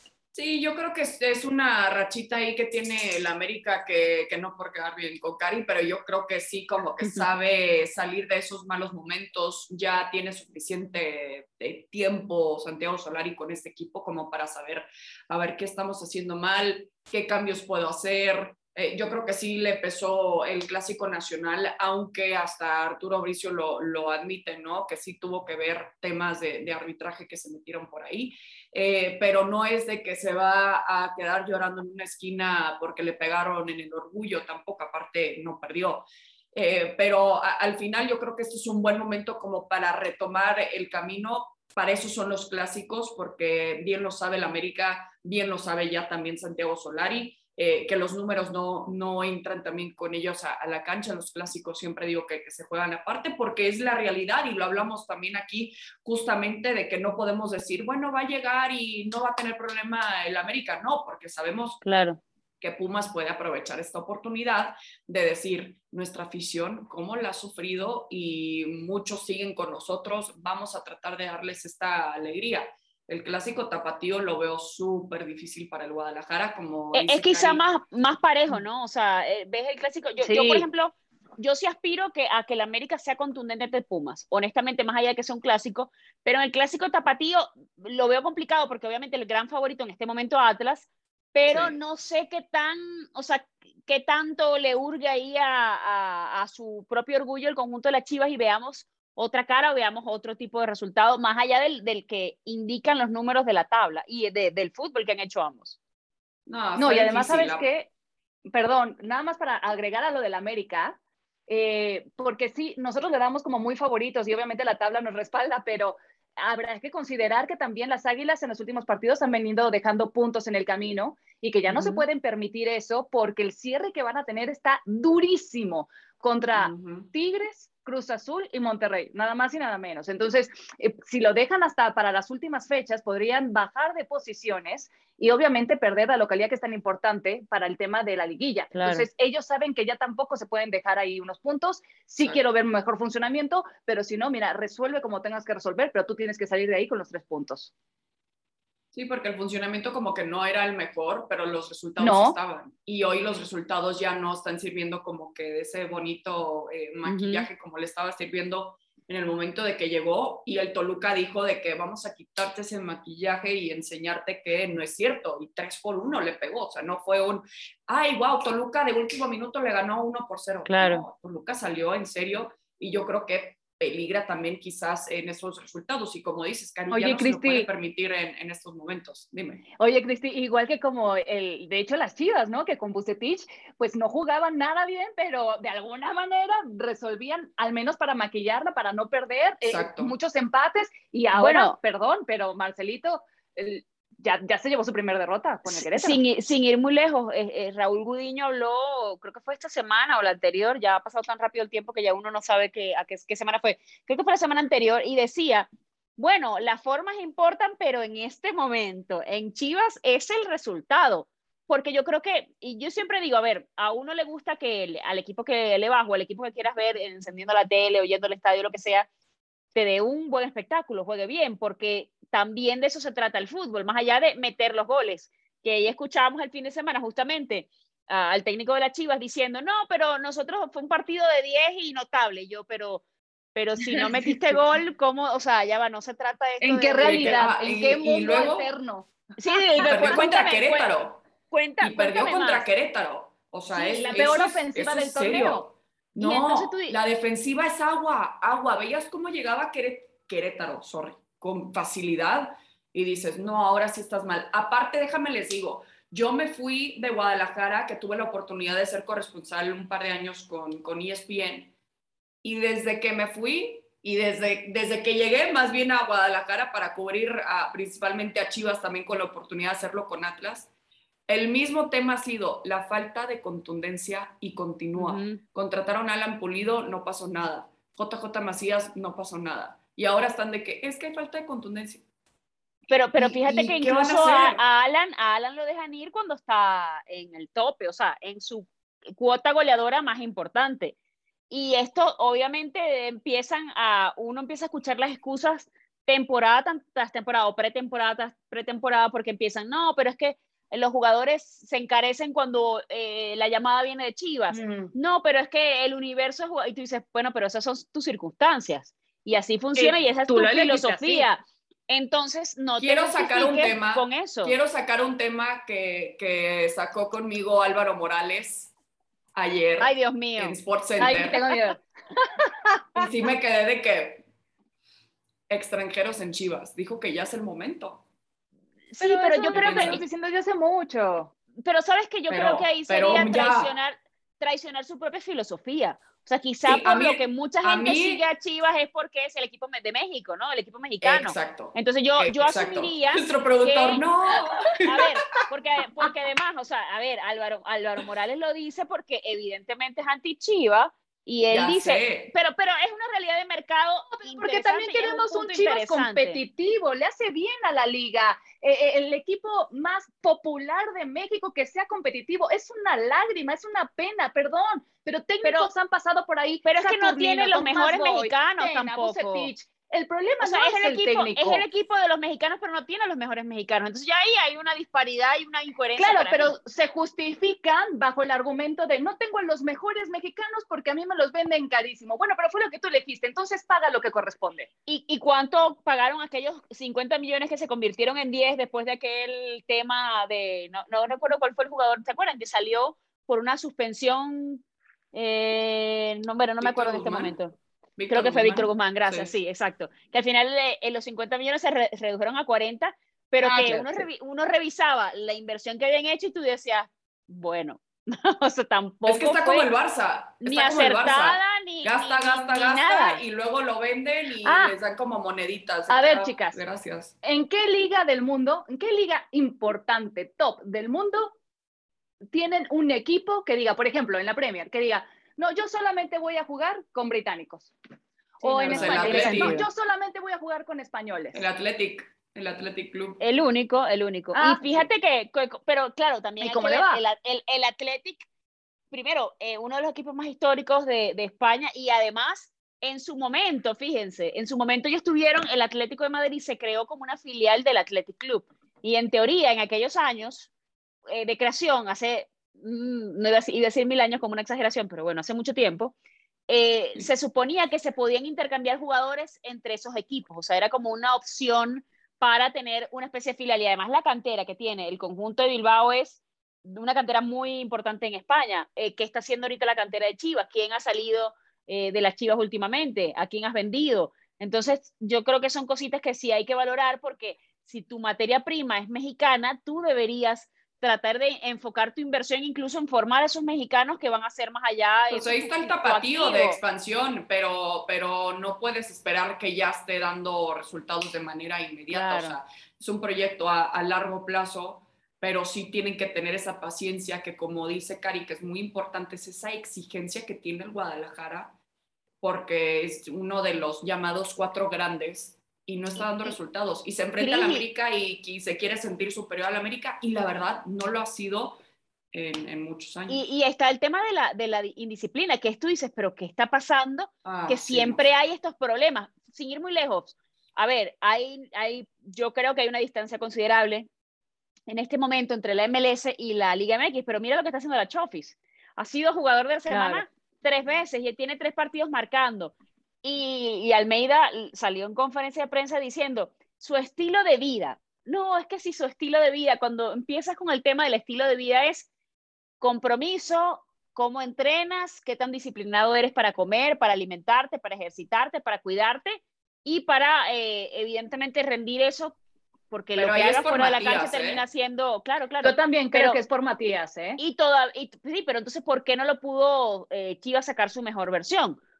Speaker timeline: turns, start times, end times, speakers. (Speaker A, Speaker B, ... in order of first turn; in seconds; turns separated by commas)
Speaker A: 0.3-61.8, Speaker B: 61.8-62.2, Speaker A: 62.6-77.6, Speaker B: 76.9-105.8, Speaker C: 80.2-80.7, Speaker A: 91.5-91.7, Speaker A: 106.5-107.7, Speaker C: 106.8-107.9, Speaker C: 108.5-147.7, Speaker B: 121.7-122.0, Speaker A: 126.5-127.1, Speaker B: 138.7-139.1, Speaker A: 148.9-179.7, Speaker C: 152.0-152.3, Speaker B: 157.0-157.5, Speaker B: 170.7-171.0, Speaker C: 176.9-177.7, Speaker C: 179.8-196.2, Speaker A: 189.6-190.1, Speaker B: 191.3-191.8, Speaker B: 195.7-219.1, Speaker B: 219.7-233.0, Speaker B: 233.5-237.4, Speaker C: 233.9-234.5, Speaker C: 236.6-239.1, Speaker A: 237.0-238.7, Speaker B: 239.4-240.9, Speaker C: 239.8-240.2, Speaker A: 239.8-241.2, Speaker B: 241.5-242.7, Speaker A: 241.8-261.7, Speaker C: 243.7-245.7, Speaker B: 246.2-247.0, Speaker A: 262.4-270.7, Speaker A: 271.3-282.0, Speaker B: 274.9-275.4, Speaker B: 282.9-290.9, Speaker A: 283.1-284.6, Speaker B: 291.5-314.6, Speaker C: 304.5-304.9, Speaker C: 309.8-311.3, Speaker A: 312.8-318.7, Speaker A: 319.3-321.4, Speaker B: 319.8-320.6, Speaker C: 321.0-323.1, Speaker A: 322.9-324.2, Speaker A: 325.5-328.0, Speaker B: 328.9-330.0, Speaker C: 329.0-331.3, Speaker A: 329.5-330.0, Speaker B: 331.6-344.0, Speaker A: 332.3-333.7, Speaker A: 336.6-338.2, Speaker A: 341.0-345.0, Speaker B: 344.8-356.4, Speaker A: 351.5-352.3, Speaker C: 354.2-371.6, Speaker B: 365.4-365.7, Speaker B: 366.6-369.5, Speaker B: 370.4-376.5, Speaker C: 376.0-384.7, Speaker B: 384.9-397.6, Speaker A: 396.6-397.4, Speaker A: 398.0-399.3, Speaker B: 398.1-409.7, Speaker C: 403.4-404.0, Speaker A: 403.5-403.8, Speaker A: 409.1-417.1, Speaker B: 410.4-413.2, Speaker C: 414.4-414.7, Speaker C: 415.9-416.6, Speaker C: 417.2-421.3, Speaker C: 422.3-427.7, Speaker B: 428.4-429.7, Speaker C: 428.4-431.4, Speaker A: 428.7-429.6, Speaker A: 431.3-433.2, Speaker B: 433.2-438.2, Speaker C: 434.3-434.9, Speaker C: 436.4-437.0, Speaker B: 438.9-450.5, Speaker B: 451.1-455.9, Speaker B: 456.5-486.6, Speaker A: 485.1-501.5, Speaker B: 491.9-492.4, Speaker A: 502.2-511.6, Speaker B: 506.0-506.3, Speaker B: 507.2-507.6, Speaker A: 512.1-513.2, Speaker B: 513.1-523.9, Speaker A: 517.2-518.0, Speaker B: 524.7-541.9, Speaker C: 529.7-530.0, Speaker B: 542.6-552.2, Speaker B: 552.7-556.2, Speaker A: 552.9-554.4, Speaker C: 555.4-557.2, Speaker B: 557.2-561.6